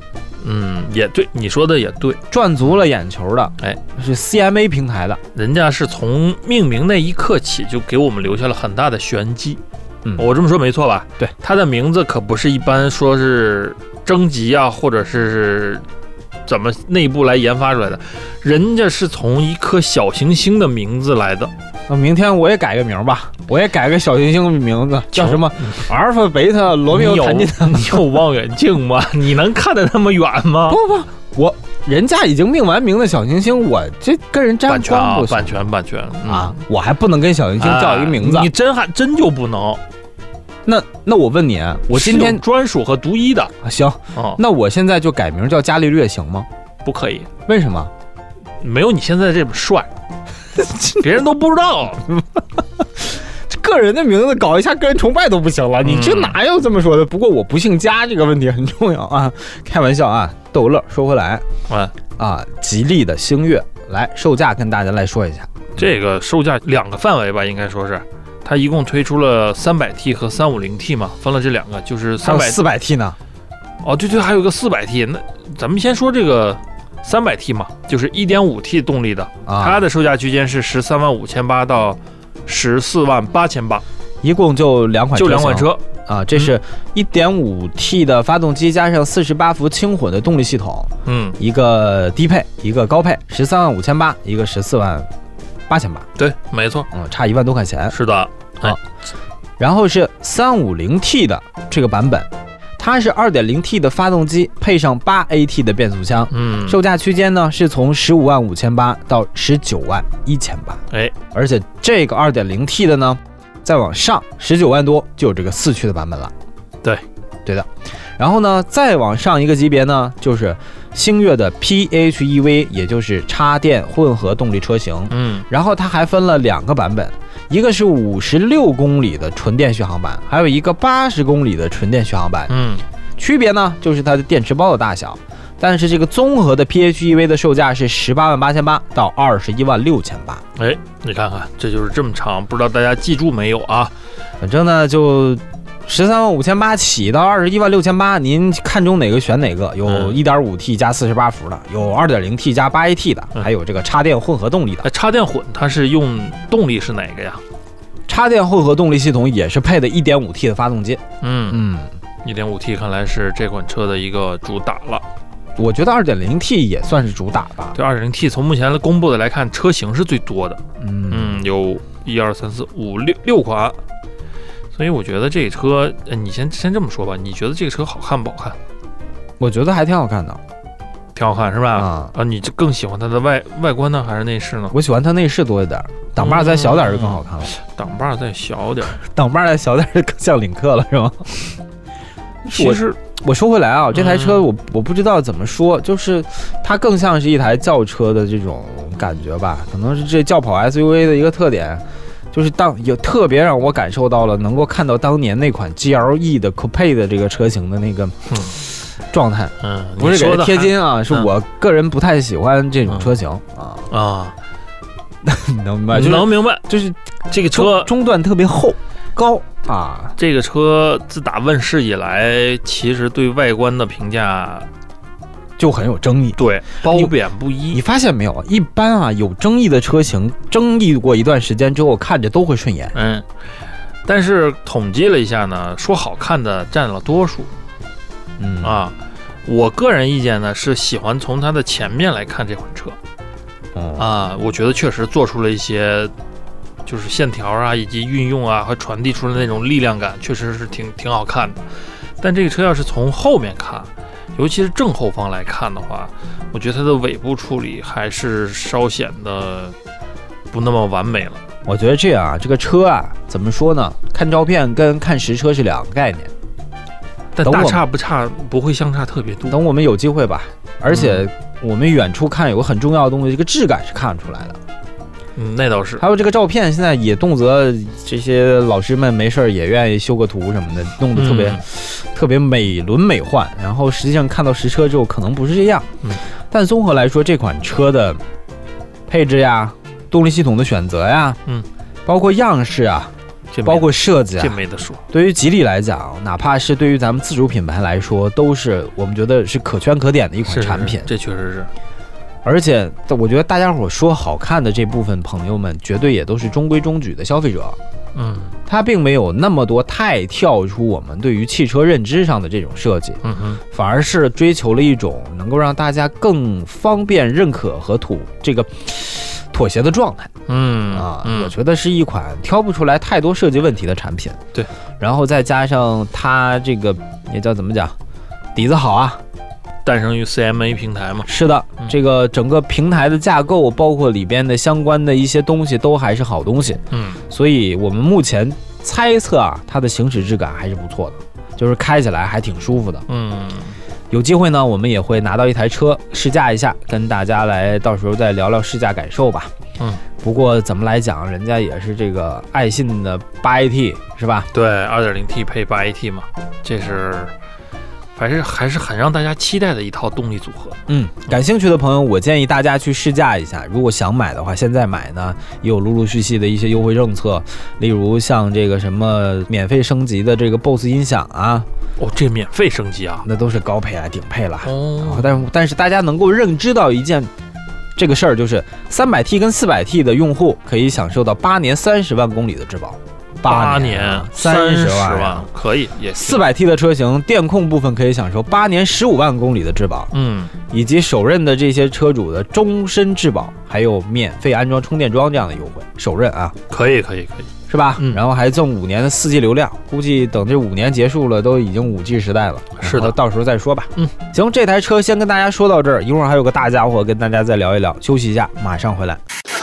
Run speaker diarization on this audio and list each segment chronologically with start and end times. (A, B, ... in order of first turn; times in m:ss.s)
0:00.4-0:02.2 A
0:02.3-0:05.2 B
0:05.4-0:09.6 A
0:10.2-0:15.9 A
0:16.5-0:21.5 A
0:21.9-0:28.1 B
0:25.1-0:25.9 A
0:26.9-0:30.8 A
0:30.7-0:35.7 B
0:34.7-0:36.6 A
0:36.2-0:38.5 B
0:37.6-0:39.8 A
0:40.7-0:42.4 B
0:41.9-0:43.5 A
0:43.6-0:46.5 B
0:44.2-0:44.4 A
0:46.8-0:47.3 A
0:47.5-0:47.9 B
0:48.6-0:49.9 A
0:50.6-0:51.0 B
0:50.8-0:52.1 A
0:52.2-1:01.4 B
0:55.8-0:56.4 A
1:01.7-1:01.9 A
1:02.2-1:05.9 B
1:05.8-1:12.6 A
1:12.2-1:13.2 B
1:13.8-1:23.8 A
1:19.5-1:19.9 B
1:24.2-1:35.1 B
1:25.2-1:26.5 A
1:31.1-1:31.4 A
1:35.7-1:36.1 B
1:36.2-1:36.9 A
1:36.9-1:38.0 B
1:37.9-1:38.8 A
1:39.6-1:56.3 B
1:46.3-1:46.8 A
1:57.5-2:12.5 B
2:05.1-2:05.5 A
2:12.5-2:12.8 A
2:13.2-2:20.4 B
2:20.6-2:23.9 A
2:24.4-2:34.9 B
2:29.8-2:30.2 A
2:34.8-2:37.4 A
2:38.1-2:41.9 B
2:41.2-2:41.6 A
2:42.2-2:45.0 A
2:45.6-2:47.8 B
2:47.7-2:53.8 A
2:50.8-2:51.4 B
2:54.8-2:58.6 A
2:59.4-3:00.4 B
3:01.2-3:04.8 A
3:01.7-3:02.1 B
3:04.7-3:07.5 B
3:06.2-3:09.0 A
3:09.0-3:11.6 B
3:12.4-3:28.2 B
3:12.5-3:13.0 A
3:13.9-3:14.5 A
3:28.3-3:28.6 A
3:29.1-3:33.9 B
3:29.6-3:31.3 A
3:32.9-3:33.2 A
3:33.9-3:34.4 A
3:35.2-3:40.2 B
3:35.9-3:36.7 A
3:37.3-3:37.9 A
3:40.2-3:44.7 A
3:45.6-3:47.1 B
3:46.4-3:47.8 A
3:47.7-3:53.0 B
3:52.9-3:53.3 A
3:54.0-3:57.5 A
3:58.4-3:58.8 B
3:58.6-4:03.0 A
4:03.8-4:04.1 B
4:04.0-4:06.1 A
4:06.8-4:11.6 A
4:12.2-4:19.8 A
4:20.5-4:21.4 A
4:21.7-4:26.3 B
4:27.4-4:29.6 A
4:27.4-4:27.8 B
4:29.5-4:34.6 B
4:30.9-4:31.2 A
4:35.4-4:36.0 A
4:36.0-4:45.9 B
4:41.1-4:41.6 A
4:46.5-4:48.2 B
4:49.1-4:51.4 B
4:52.1-4:53.1 B
4:53.5-4:55.0 A
4:53.6-4:54.6 B
4:55.1-5:01.1 B
5:00.5-5:01.7 A
5:02.4-5:07.8 B
5:08.2-5:08.5 A
5:08.7-5:13.2 B
5:13.2-5:13.6 A
5:13.7-5:20.3 B
5:20.5-5:21.5 A
5:20.9-5:24.4 B
5:25.0-5:28.0 B
5:28.6-5:29.2 B
5:29.8-5:31.3 A
5:31.3-5:43.1 B
5:36.9-5:37.2 A
5:43.1-5:43.8 A
5:44.1-5:49.5 B
5:50.2-5:54.5 B
5:54.5-5:57.3 A
5:58.2-6:00.8 A
6:00.9-6:11.7 B
6:12.0-6:13.2 A
6:13.2-6:17.3 B
6:14.6-6:15.4 A
6:18.0-6:25.5 B
6:23.5-6:26.5 A
6:26.2-6:30.1 B
6:30.1-6:30.5 A
6:30.7-6:36.6 B
6:36.7-6:38.2 A
6:37.7-6:49.2 B
6:42.8-6:43.2 A